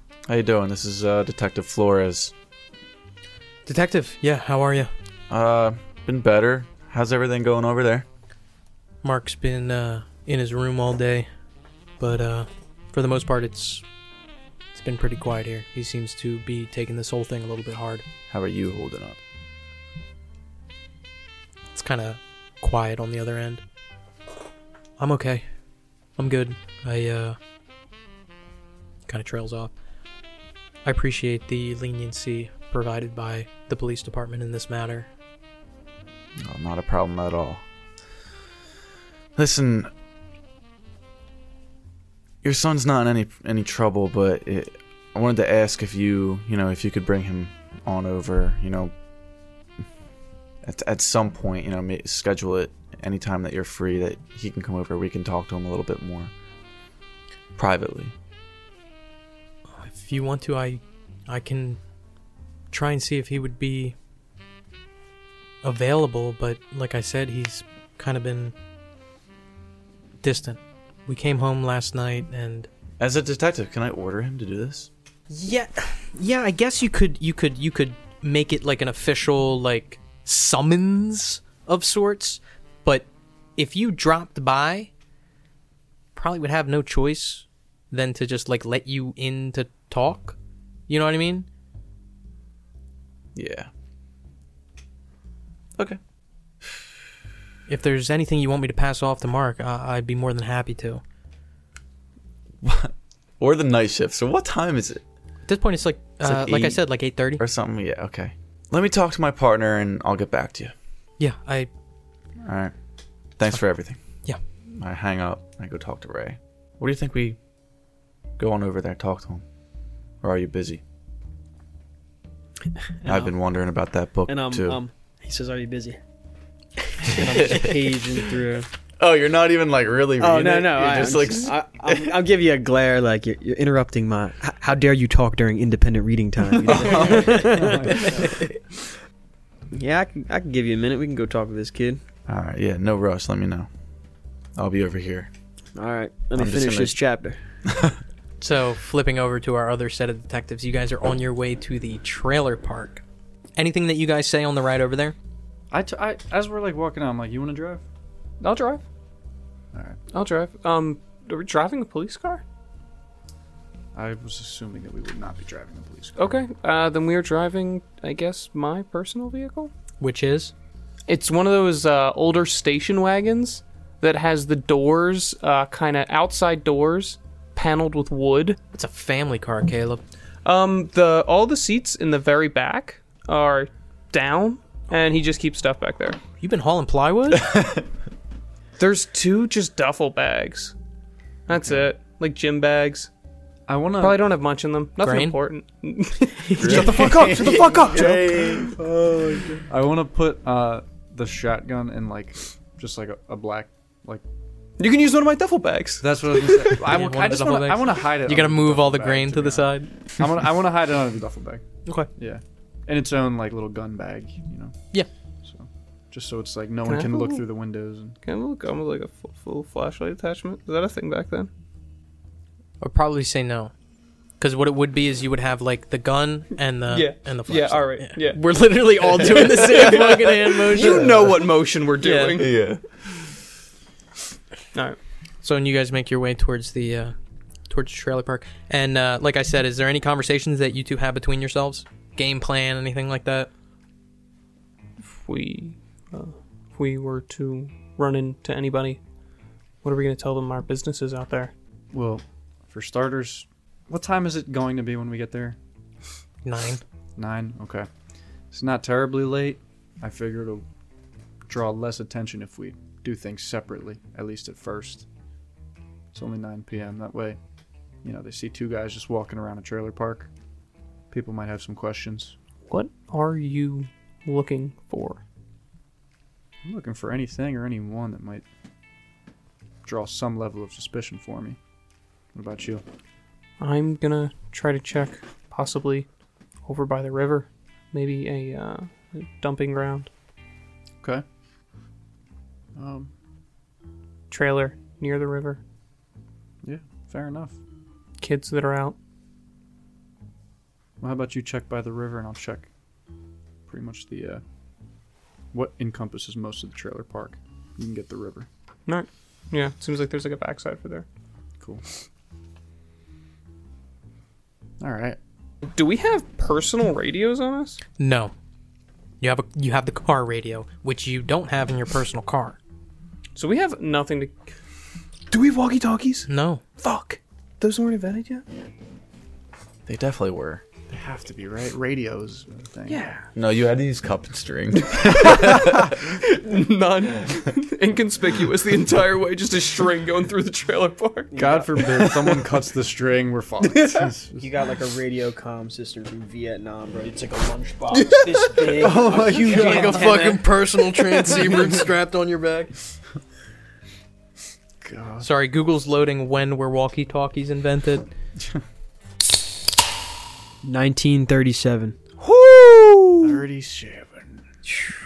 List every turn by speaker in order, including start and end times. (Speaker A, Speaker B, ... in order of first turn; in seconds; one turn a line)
Speaker A: 0.3-2.3
Speaker B: 3.7-4.9
Speaker A: 5.3-8.1
Speaker B: 9.0-11.3
Speaker B: 12.0-13.8
Speaker B: 14.8-18.0
Speaker A: 18.3-19.2
Speaker B: 21.7-23.6
Speaker B: 25.0-25.4
Speaker B: 26.2-27.4
Speaker B: 29.1-29.7
Speaker B: 30.8-35.1
Speaker A: 36.4-37.6
Speaker A: 39.4-39.9
Speaker A: 42.4-48.9
Speaker A: 50.6-56.3
Speaker A: 57.6-58.1
Speaker B: 59.7-61.8
Speaker B: 62.7-64.0
Speaker B: 65.6-68.5
Speaker B: 70.2-72.7
Speaker A: 73.0-74.9
Speaker B: 75.3-84.9
Speaker B: 86.2-90.4
Speaker B: 90.9-91.5
Speaker A: 93.3-93.7
Speaker B: 97.7-101.0
Speaker A: 102.6-105.0
Speaker B: 105.5-107.4
Speaker A: 106.2-106.8
Speaker A: 107.4-110.7
Speaker B: 111.2-111.7
Speaker A: 112.4-112.7
Speaker A: 113.4-114.0
Speaker A: 114.8-117.4
Speaker A: 118.4-119.4
Speaker A: 120.2-120.8
Speaker C: 123.0-123.3
Speaker A: 123.0-124.8
Speaker C: 124.3-126.0
Speaker C: 127.0-128.7
Speaker A: 127.0-128.0
Speaker A: 129.0-132.2
Speaker C: 130.2-138.5
Speaker D: 136.7-138.6
Speaker C: 139.7-142.0
Speaker A: 142.3-143.7
Speaker A: 144.6-145.3
Speaker C: 145.8-147.4
Speaker A: 146.3-147.0
Speaker A: 147.7-148.0
Speaker B: 148.4-153.0
Speaker B: 153.6-155.2
Speaker D: 155.7-157.8
Speaker E: 158.4-158.8
Speaker E: 160.1-162.4
Speaker D: 163.9-166.4
Speaker E: 166.2-169.7
Speaker B: 170.0-170.5
Speaker E: 171.1-178.6
Speaker B: 178.7-180.0
Speaker E: 180.4-186.2
Speaker B: 186.4-187.6
Speaker A: 187.5-187.8
Speaker E: 188.8-190.8
Speaker E: 191.5-193.1
Speaker D: 193.7-194.3
Speaker E: 194.0-198.7
Speaker B: 195.0-195.4
Speaker B: 196.6-196.9
Speaker A: 196.6-199.3
Speaker D: 196.7-197.3
Speaker D: 199.7-204.2
Speaker E: 204.8-206.8
Speaker D: 206.0-214.8
Speaker B: 206.8-209.9
Speaker D: 215.4-218.2
Speaker E: 216.8-217.4
Speaker E: 218.2-221.5
Speaker B: 222.8-223.7
Speaker B: 224.4-231.1
Speaker E: 226.9-228.4
Speaker E: 229.0-232.5
Speaker A: 230.8-231.5
Speaker B: 232.0-232.4
Speaker A: 232.4-233.2
Speaker B: 235.4-237.1
Speaker B: 237.7-243.5
Speaker E: 245.1-249.0
Speaker E: 249.8-251.5
Speaker D: 251.9-255.6
Speaker B: 256.4-256.8
Speaker D: 257.2-257.9
Speaker D: 258.5-260.6
Speaker D: 261.5-265.1
Speaker D: 266.1-267.4
Speaker D: 268.0-270.3
Speaker D: 271.1-272.4
Speaker E: 272.7-275.2
Speaker D: 276.6-278.4
Speaker D: 279.9-281.6
Speaker D: 282.3-282.8
Speaker E: 283.6-286.1
Speaker E: 286.6-290.1
Speaker D: 292.8-293.1
Speaker E: 294.3-295.6
Speaker D: 296.6-297.6
Speaker E: 298.2-299.0
Speaker D: 301.0-302.7
Speaker D: 303.7-304.4
Speaker D: 305.5-308.5
Speaker E: 308.9-311.1
Speaker D: 314.8-315.2
Speaker E: 315.6-317.8
Speaker B: 318.0-318.3
Speaker B: 319.2-322.6
Speaker E: 323.4-324.4
Speaker E: 325.3-328.4
Speaker B: 326.3-326.6
Speaker A: 329.9-330.6
Speaker D: 330.9-333.0
Speaker E: 332.9-333.3
Speaker A: 333.4-335.9
Speaker E: 334.8-341.3
Speaker C: 341.3-342.0
Speaker D: 341.4-344.5
Speaker A: 342.0-342.3
Speaker C: 344.0-350.5
Speaker D: 347.9-350.4
Speaker B: 349.3-352.7
Speaker D: 354.8-355.3
Speaker B: 355.2-358.1
Speaker C: 360.6-362.0
Speaker E: 362.2-363.4
Speaker D: 363.2-364.4